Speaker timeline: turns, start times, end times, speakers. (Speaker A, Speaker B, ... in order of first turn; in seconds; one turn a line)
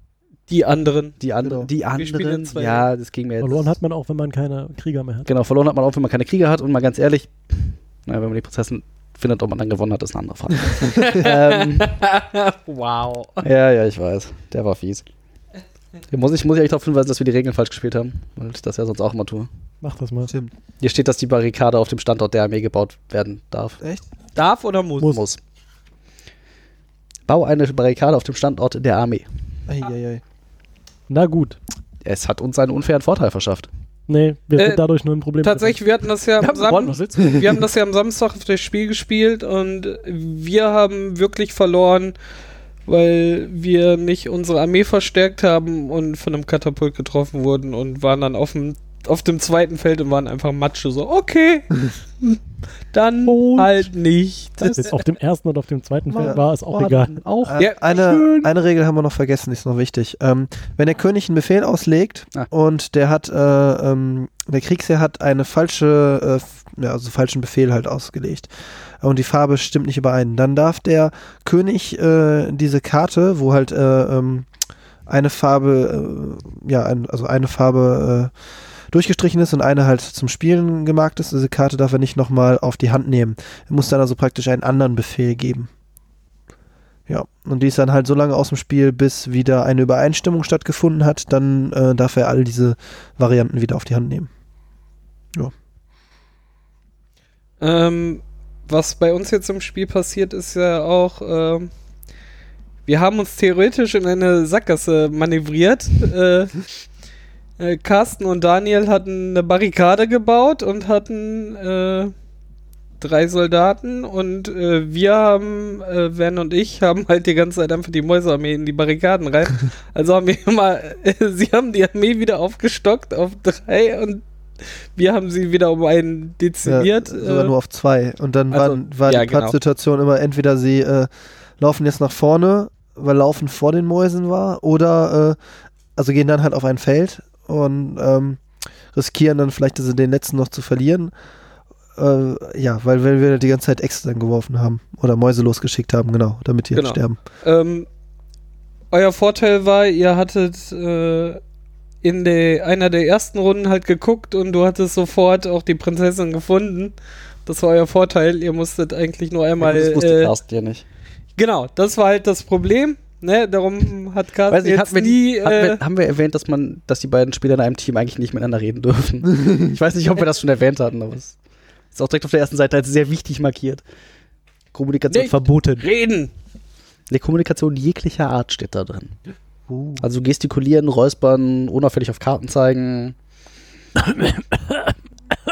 Speaker A: 0.5-1.2
Speaker B: 1.2-3.8
Speaker A: 1.9-2.9
Speaker C: 3.4-5.3
Speaker B: 5.2-11.9
Speaker A: 10.9-13.5
Speaker B: 13.4-15.0
Speaker B: 16.1-19.5
Speaker C: 19.8-20.3
Speaker D: 20.3-20.5
Speaker B: 20.8-23.8
Speaker A: 24.3-25.2
Speaker B: 25.0-25.4
Speaker B: 27.3-29.2
Speaker D: 29.7-30.2
Speaker C: 31.1-31.6
Speaker B: 32.0-33.7
Speaker C: 34.1-35.8
Speaker A: 34.6-34.8
Speaker A: 35.4-42.1
Speaker B: 36.4-37.6
Speaker A: 42.9-52.4
Speaker A: 52.9-55.0
Speaker C: 53.2-53.9
Speaker C: 54.6-57.2
Speaker B: 56.1-58.5
Speaker D: 56.1-56.4
Speaker D: 57.4-68.5
Speaker D: 69.0-74.5
Speaker D: 75.1-78.3
Speaker D: 78.9-85.7
Speaker D: 87.1-94.3
Speaker A: 97.6-101.7
Speaker A: 102.9-106.5
Speaker A: 107.6-112.1
Speaker A: 113.0-127.5
Speaker D: 126.7-135.4
Speaker A: 128.5-129.5
Speaker D: 135.9-138.4
Speaker D: 138.9-141.1
Speaker D: 142.0-147.2
Speaker A: 146.7-147.9
Speaker A: 148.9-151.4
Speaker A: 152.0-156.9
Speaker A: 157.4-160.3
Speaker B: 159.6-160.8
Speaker A: 161.4-165.8
Speaker B: 164.5-171.3
Speaker B: 171.9-173.8
Speaker B: 174.7-175.8
Speaker A: 175.1-176.3
Speaker B: 177.1-179.1
Speaker D: 179.7-180.0
Speaker B: 180.0-183.1
Speaker C: 184.1-184.6